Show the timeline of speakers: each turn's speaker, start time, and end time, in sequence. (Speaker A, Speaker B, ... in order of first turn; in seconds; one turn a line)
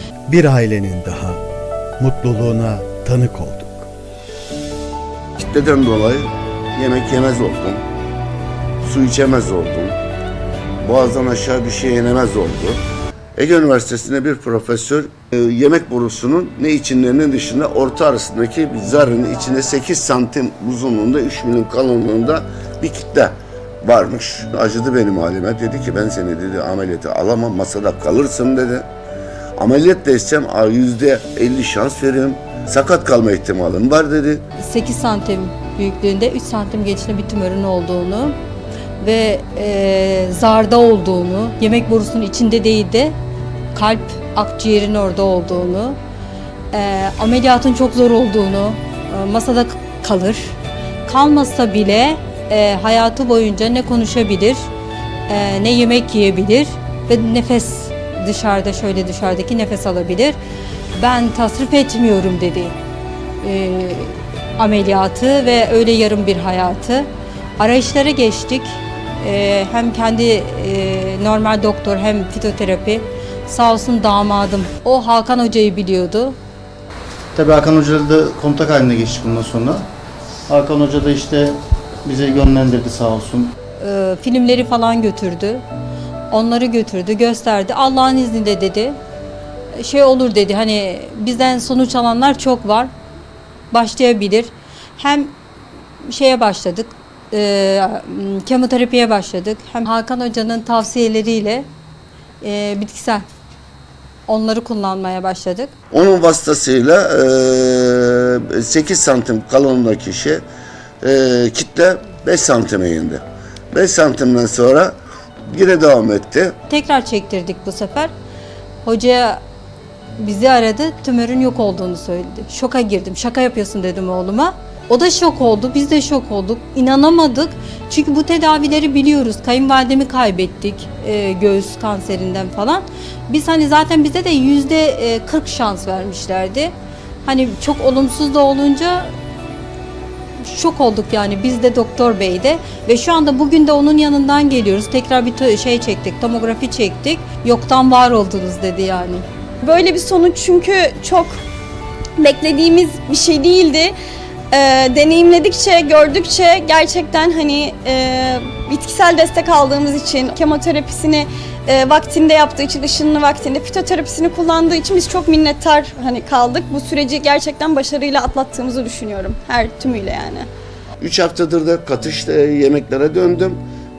Speaker A: 0.3-1.4
Speaker A: 2.0-3.9
Speaker B: 5.4-7.8
Speaker B: 8.8-10.0
Speaker B: 10.8-12.8
Speaker B: 13.3-28.9
Speaker B: 29.6-34.4
Speaker C: 34.6-38.4
Speaker C: 39.0-43.1
Speaker C: 43.7-46.0
Speaker C: 46.7-54.7
Speaker C: 55.3-60.4
Speaker C: 61.0-62.8
Speaker C: 63.4-76.4
Speaker D: 77.3-79.9
Speaker D: 80.5-83.5
Speaker C: 83.8-85.6
Speaker C: 86.3-89.0
Speaker C: 89.8-92.9
Speaker C: 93.7-95.3
Speaker C: 96.1-101.7
Speaker C: 102.4-103.2
Speaker C: 104.3-105.7
Speaker B: 105.9-110.4
Speaker B: 111.0-115.0
Speaker B: 115.5-116.5
Speaker C: 116.7-118.1
Speaker C: 118.8-119.4
Speaker C: 120.2-136.7
Speaker C: 137.2-139.1
Speaker C: 140.4-149.2
Speaker E: 149.6-151.4
Speaker E: 152.2-153.9
Speaker E: 154.5-170.5
Speaker B: 171.0-173.6